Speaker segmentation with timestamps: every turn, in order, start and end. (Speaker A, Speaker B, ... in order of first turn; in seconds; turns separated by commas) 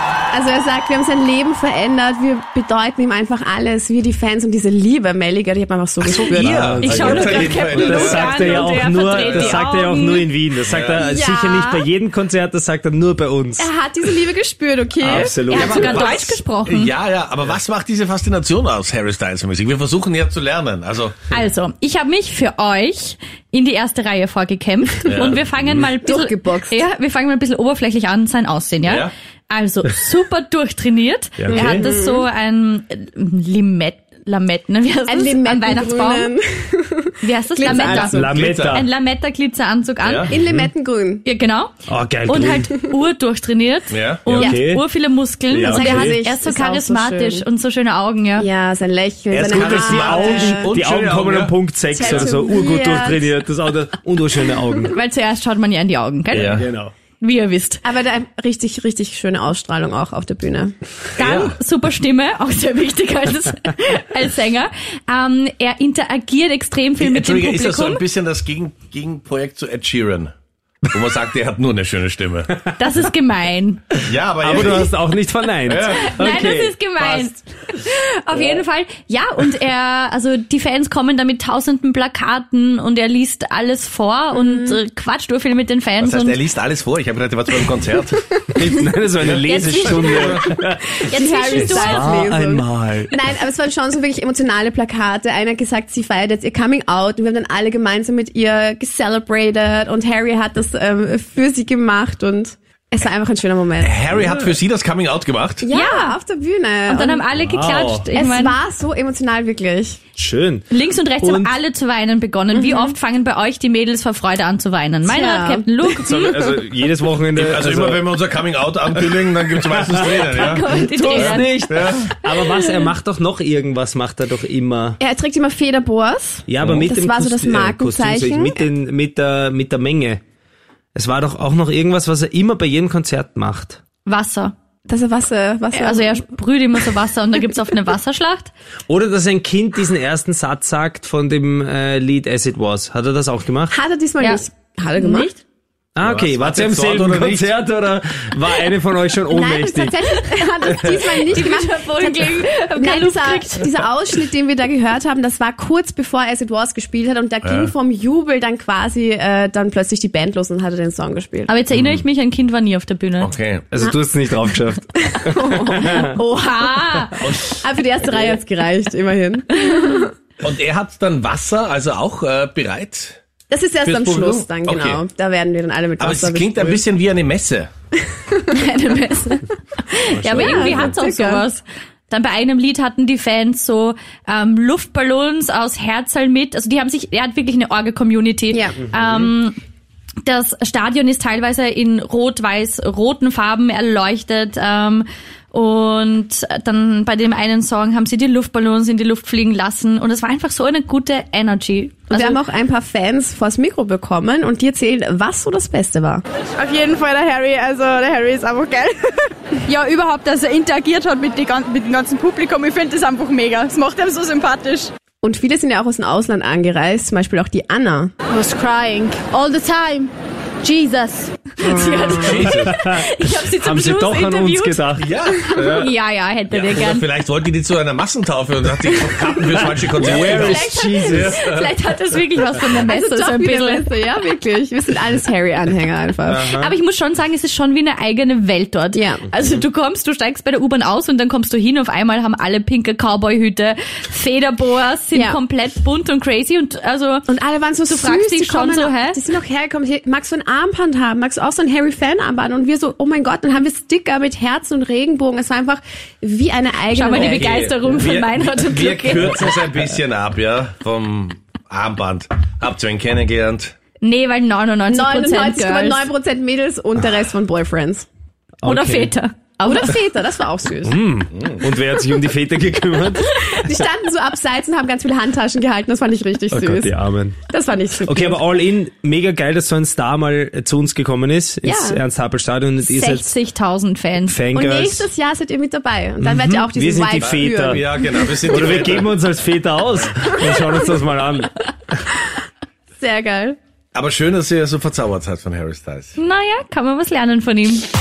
Speaker A: 0.3-7.2, Speaker B: 6.0-9.6, Speaker C: 6.3-13.7, Speaker D: 6.8-10.3, Speaker B: 10.7-11.1, Speaker A: 11.0-11.6, Speaker D: 11.2-11.8, Speaker A: 13.6-16.0, Speaker C: 15.0-16.1, Speaker D: 15.5-16.9, Speaker B: 15.5-21.3, Speaker D: 21.3-36.3, Speaker B: 25.1-25.9, Speaker A: 26.0-26.8, Speaker B: 28.9-29.1, Speaker C: 31.4-31.9, Speaker A: 31.5-32.2, Speaker A: 35.1-38.4, Speaker D: 37.2-40.3, Speaker C: 37.7-38.9, Speaker B: 38.2-38.8, Speaker B: 40.0-40.3, Speaker A: 40.3-41.2, Speaker C: 40.4-40.7, Speaker D: 41.2-41.7, Speaker C: 41.9-42.7, Speaker D: 42.3-48.5, Speaker B: 43.9-44.3, Speaker C: 44.3-44.9, Speaker C: 45.5-46.2, Speaker A: 45.6-47.4, Speaker A: 48.4-50.7, Speaker B: 49.3-52.2, Speaker C: 49.4-55.0, Speaker A: 51.9-53.3, Speaker D: 54.9-56.6, Speaker B: 56.3-56.7, Speaker C: 56.5-56.9, Speaker D: 57.2-57.9, Speaker A: 57.8-60.8, Speaker B: 61.2-61.5, Speaker D: 61.2-68.0, Speaker B: 67.0-70.3, Speaker B: 70.9-72.5, Speaker D: 72.8-73.8, Speaker B: 74.0-74.9, Speaker C: 74.4-77.3, Speaker B: 75.7-76.4, Speaker D: 75.7-86.4, Speaker A: 84.3-84.8, Speaker B: 86.0-88.3, Speaker C: 88.5-93.2, Speaker B: 89.2-90.6, Speaker D: 89.4-90.4, Speaker A: 91.0-104.0, Speaker D: 91.1-92.1, Speaker B: 103.8-105.7, Speaker A: 105.6-107.2, Speaker D: 105.7-106.2, Speaker D: 106.9-108.6, Speaker C: 107.4-108.1, Speaker A: 108.1-110.0, Speaker C: 110.2-110.7, Speaker D: 110.7-116.3, Speaker C: 111.2-111.6, Speaker A: 112.5-113.0, Speaker A: 115.1-115.7, Speaker C: 116.0-118.0, Speaker B: 117.3-122.1, Speaker C: 119.7-125.0, Speaker D: 120.4-121.7, Speaker D: 122.2-122.5, Speaker A: 125.0-128.6, Speaker C: 126.5-130.2, Speaker C: 130.9-133.8, Speaker D: 134.1-134.5, Speaker A: 134.9-136.2, Speaker D: 135.7-138.5, Speaker C: 138.9-143.8, Speaker A: 143.7-145.3, Speaker D: 145.0-145.4, Speaker C: 146.0-150.0, Speaker B: 146.0-147.6, Speaker A: 149.3-161.5, Speaker D: 150.9-153.8, Speaker B: 157.4-157.7, Speaker D: 161.5-163.3, Speaker B: 161.7-162.0, Speaker B: 163.2-163.7, Speaker C: 163.7-166.0, Speaker A: 165.2-166.1, Speaker D: 165.8-167.2, Speaker B: 167.2-168.3, Speaker A: 167.6-170.1, Speaker B: 170.4-173.2, Speaker A: 173.5-176.8, Speaker B: 173.8-175.0, Speaker B: 176.0-177.7, Speaker A: 178.2-178.4, Speaker D: 178.5-189.6, Speaker A: 180.2-181.4, Speaker B: 180.3-180.9, Speaker D: 190.2-202.4, Speaker A: 202.1-206.2, Speaker E: 206.6-214.9, Speaker A: 215.2-218.1, Speaker E: 218.3-220.1, Speaker E: 220.6-221.3, Speaker D: 221.6-224.8, Speaker B: 221.7-222.8, Speaker C: 222.3-225.1, Speaker B: 225.0-225.9, Speaker D: 225.6-227.1, Speaker B: 226.5-231.7, Speaker C: 229.8-231.4, Speaker D: 230.0-233.9, Speaker A: 232.8-236.4, Speaker C: 236.3-236.8, Speaker D: 236.5-247.3, Speaker A: 238.9-239.2, Speaker A: 245.1-245.4, Speaker A: 247.3-257.7, Speaker D: 247.8-249.2, Speaker D: 256.9-259.5, Speaker B: 257.2-263.8, Speaker D: 264.0-266.1, Speaker A: 264.9-268.1, Speaker C: 268.6-269.1, Speaker D: 268.6-269.9, Speaker A: 269.6-270.9, Speaker C: 270.8-273.6, Speaker A: 273.3-276.9, Speaker C: 276.5-277.4, Speaker A: 277.5-278.4, Speaker C: 278.0-283.3, Speaker A: 281.6-282.0, Speaker D: 282.8-284.4, Speaker C: 284.3-285.1, Speaker A: 284.5-288.8, Speaker C: 286.2-287.9, Speaker B: 287.2-289.1, Speaker C: 288.4-291.6, Speaker A: 293.0-293.6, Speaker B: 293.9-296.1, Speaker D: 296.2-297.9